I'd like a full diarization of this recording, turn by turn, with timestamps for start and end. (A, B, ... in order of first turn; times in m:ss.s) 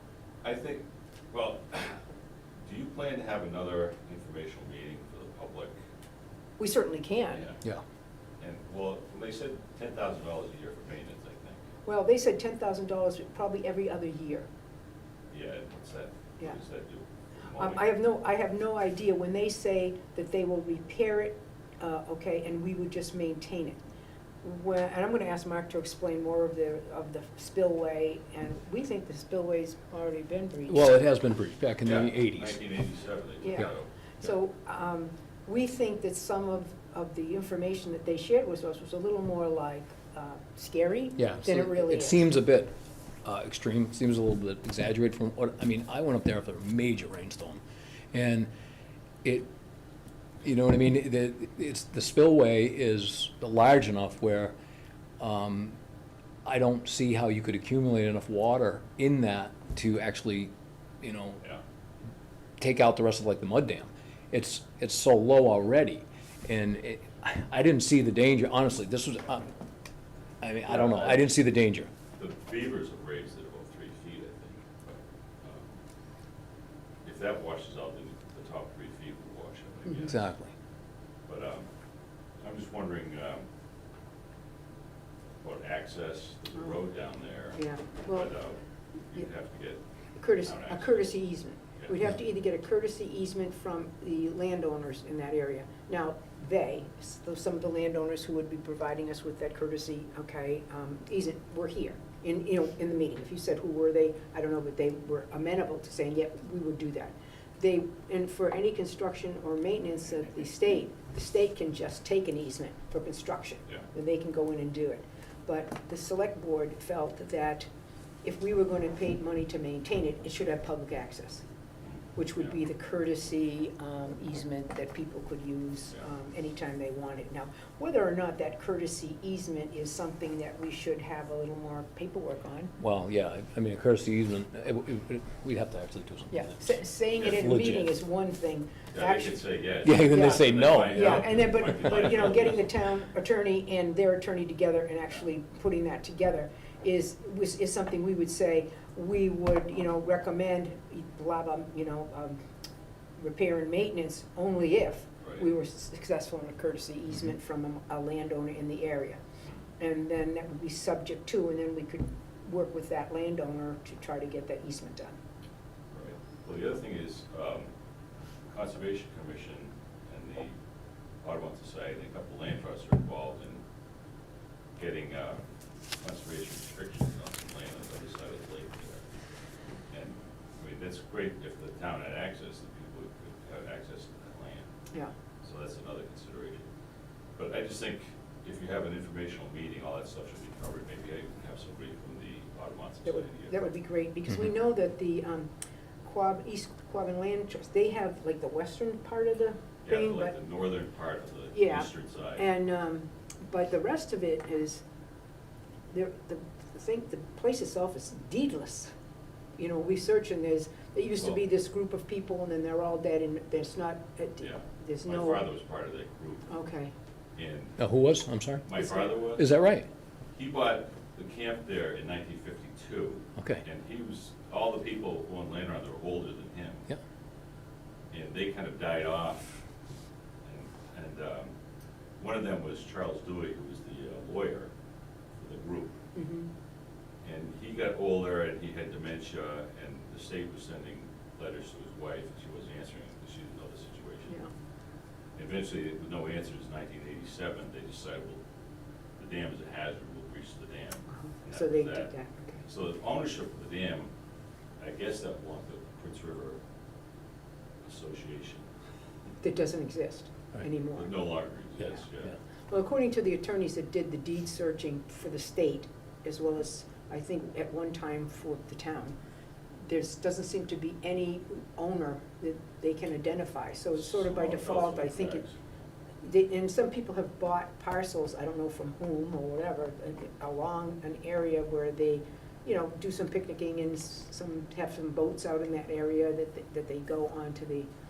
0:00.4-0:02.0 A
0:02.6-0:05.8 A
0:06.6-0:07.5 B
0:07.3-0:07.6 A
0:08.4-0:11.6 A
0:11.8-0:14.5 B
0:15.3-0:17.8 A
0:17.6-0:23.8 B
0:24.4-0:30.8 B
0:30.7-0:32.6 C
0:31.8-0:33.9 A
0:33.4-0:42.2 B
0:41.2-0:42.7 C
0:43.2-0:47.6 C
0:48.1-0:48.5 C
0:50.4-0:54.6 C
0:55.2-0:55.8 C
0:56.4-1:00.5 C
1:01.0-1:01.4 C
1:02.6-1:09.5 C
1:10.4-1:11.9 C
1:10.7-1:11.2 A
1:12.2-1:14.7 A
1:15.4-1:15.7 A
1:17.0-1:20.3 A
1:20.0-1:20.5 C
1:21.3-1:21.7 A
1:22.4-1:23.4 A
1:25.4-1:28.6 A
1:27.6-1:28.3 B
1:29.1-1:31.1 A
1:30.2-1:57.7 B
1:58.2-2:01.5 B
2:01.8-2:02.5 A
2:02.1-2:12.8 B
2:12.8-2:17.9 C
2:16.3-2:32.4 B
2:17.2-2:17.5 A
2:18.9-2:22.6 A
2:19.8-2:21.6 C
2:33.2-2:39.2 B
2:39.8-2:45.2 B
2:45.9-2:47.7 A
2:48.5-2:50.5 A
2:51.2-2:53.6 A
2:54.8-2:55.4 A
2:56.0-2:59.1 A
2:59.9-3:04.7 A
3:05.4-3:06.7 A
3:07.4-3:13.7 A
3:13.0-3:15.5 B
3:16.0-3:20.4 B
3:19.8-3:22.4 A
3:21.5-3:24.8 B
3:25.9-3:28.9 B
3:29.6-3:35.5 B
3:34.4-3:36.5 A
3:36.5-3:36.9 B
3:37.4-3:37.8 A
3:37.8-3:38.7 C
3:38.6-3:39.4 A
3:38.8-3:39.1 B
3:39.2-3:39.9 C
3:40.3-3:46.8 A
3:43.4-3:43.6 C
3:48.1-3:49.6 A
3:50.4-3:51.5 A
3:52.2-3:54.7 A
3:55.4-3:56.0 A
3:56.1-3:56.5 B
3:57.2-4:04.4 A
4:05.4-4:08.4 A
4:09.2-4:12.1 A
4:11.1-4:12.6 B
4:12.6-4:14.1 A
4:14.8-4:16.6 A
4:17.8-4:18.6 A
4:19.4-4:21.2 B
4:20.9-4:22.3 A
4:22.7-4:29.1 B
4:29.9-4:35.4 B
4:34.0-4:35.6 A
4:36.2-4:47.9 B